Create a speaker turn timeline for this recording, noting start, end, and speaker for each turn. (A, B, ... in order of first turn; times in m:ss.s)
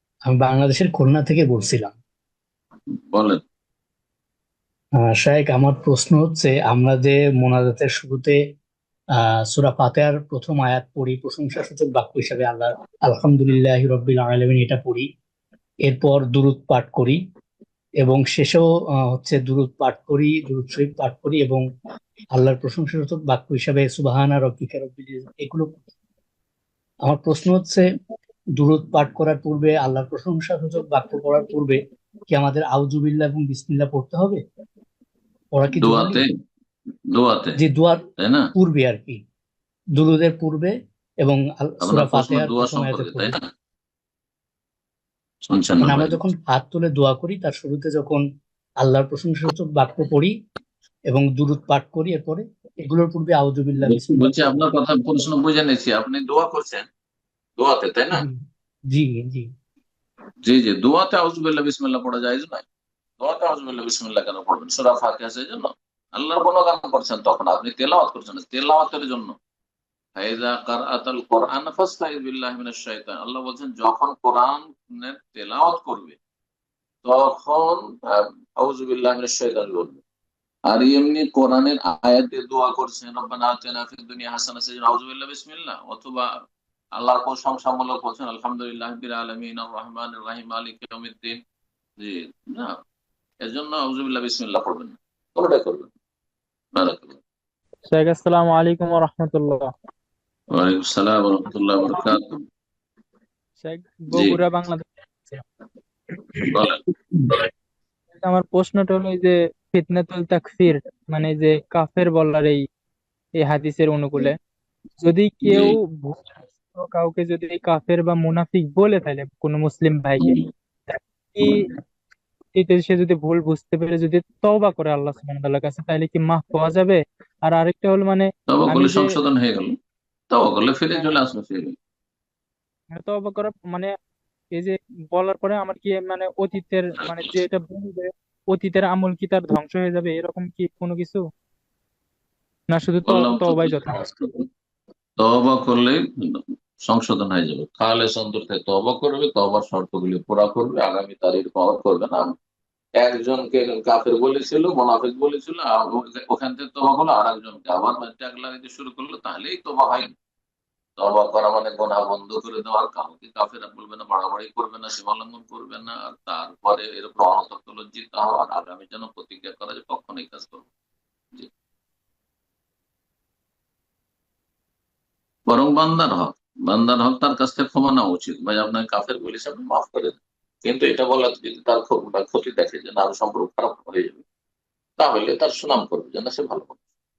0:00.3-0:01.9 A
0:03.1-0:03.4 B
0:05.0-0:08.4 A
0:09.5-0:15.0 A
0:15.8-0:17.2 A
0:18.0-0:21.6 A
0:22.4-0:25.8 A
0:27.0-0:27.8 A
0:28.6-0:31.8 A
0:32.3-0:34.4 A
0:35.5-0:36.2 A
0:35.8-0:36.3 B
0:37.1-0:37.6 B
0:37.6-0:38.0 A
0:38.2-0:38.5 B
0:38.6-0:39.2 A
0:40.0-0:43.3 A
0:41.8-0:43.4 B
0:45.5-0:46.2 B
0:45.8-0:48.2 A
0:48.8-0:50.3 A
0:51.1-0:54.6 A
0:53.8-0:56.8 B
0:57.6-0:58.2 B
0:58.2-0:58.4 A
0:58.9-0:59.5 A
1:00.4-1:02.6 B
1:03.2-1:09.3 B
1:10.2-1:16.2 B
1:17.0-1:20.0 B
1:20.7-1:26.3 B
1:27.0-1:31.4 B
1:32.0-1:32.7 B
1:33.4-1:35.9 B
1:36.8-1:37.2 B
1:37.9-1:39.7 C
1:40.5-1:42.4 B
1:43.6-1:45.4 C
1:46.5-1:46.8 B
1:48.2-1:52.6 C
1:53.4-1:54.3 C
1:55.0-2:00.4 C
1:55.4-1:55.7 B
2:00.2-2:00.5 B
2:00.9-2:01.6 C
2:02.5-2:09.1 C
2:08.5-2:09.7 B
2:10.3-2:11.7 B
2:12.9-2:13.9 C
2:14.5-2:21.2 C
2:17.0-2:17.3 B
2:22.7-2:24.0 C
2:23.0-2:24.4 B
2:25.2-2:32.3 B
2:33.0-2:40.1 B
2:41.0-2:50.7 B
2:55.5-3:04.2 B
3:05.0-3:06.8 B